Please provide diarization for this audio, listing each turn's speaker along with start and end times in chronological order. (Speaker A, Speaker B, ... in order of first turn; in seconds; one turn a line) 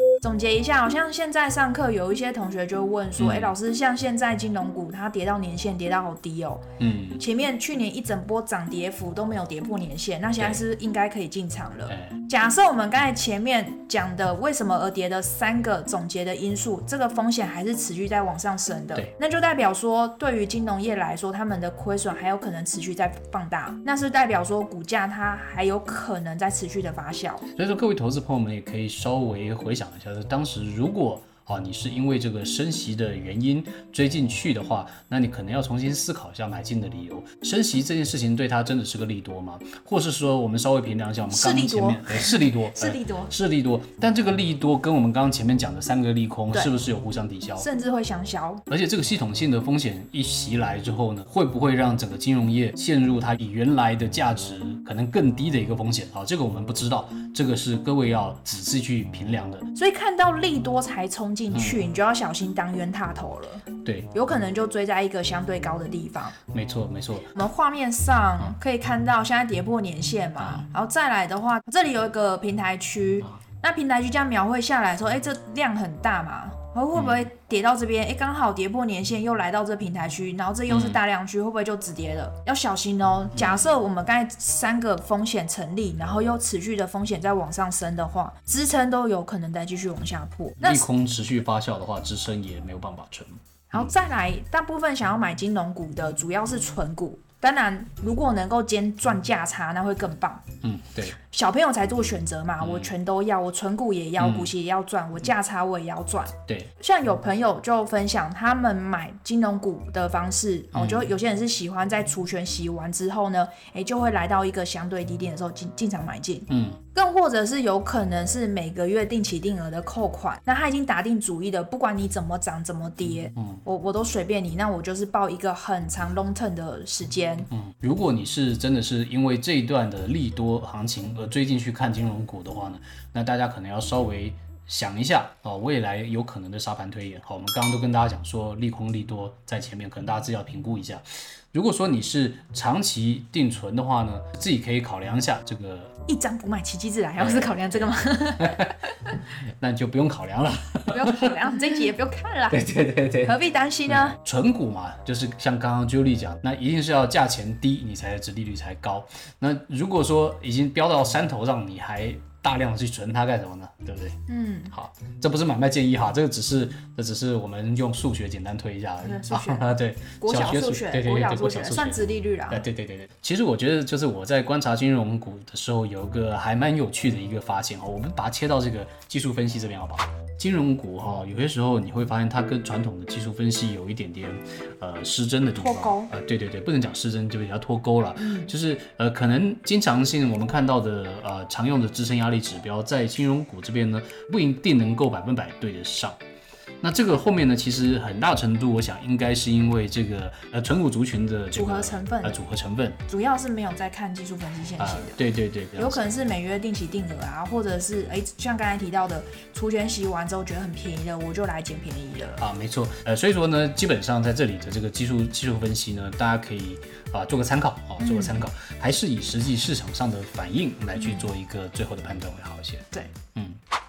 Speaker A: 0.2-6.6
Speaker B: 3.2-3.5
Speaker B: 6.8-7.2
Speaker A: 7.2-27.4
Speaker B: 11.9-12.2
Speaker B: 27.5-47.7
Speaker A: 41.3-43.3
Speaker A: 47.6-48.6
Speaker B: 48.7-59.7
Speaker A: 59.7-66.3
Speaker B: 61.5-61.8
Speaker B: 66.5-67.3
Speaker A: 67.3-90.8
Speaker B: 70.4-70.6
Speaker B: 76.9-77.2
Speaker B: 80.7-81.0
Speaker B: 83.3-83.7
Speaker B: 90.6-93.9
Speaker A: 93.7-100.4
Speaker B: 100.6-101.2
Speaker A: 101.3-127.5
Speaker B: 102.6-102.9
Speaker B: 104.2-104.5
Speaker B: 110.7-111.1
Speaker B: 116.5-116.8
Speaker B: 123.3-123.6
Speaker B: 127.5-145.9
Speaker A: 146.1-149.1
Speaker B: 147.2-148.8
Speaker B: 149.3-151.5
Speaker A: 150.9-152.7
Speaker B: 152.5-164.2
Speaker A: 153.2-154.2
Speaker A: 164.3-164.7
Speaker B: 164.7-196.2
Speaker A: 169.0-169.7
Speaker A: 170.2-172.6
Speaker A: 185.6-186.1
Speaker A: 188.2-188.5
Speaker B: 196.8-203.0
Speaker A: 201.5-202.4
Speaker A: 203.1-205.2
Speaker B: 204.8-206.0
Speaker A: 205.8-212.4
Speaker B: 212.4-223.6
Speaker A: 218.0-218.4
Speaker A: 220.9-221.3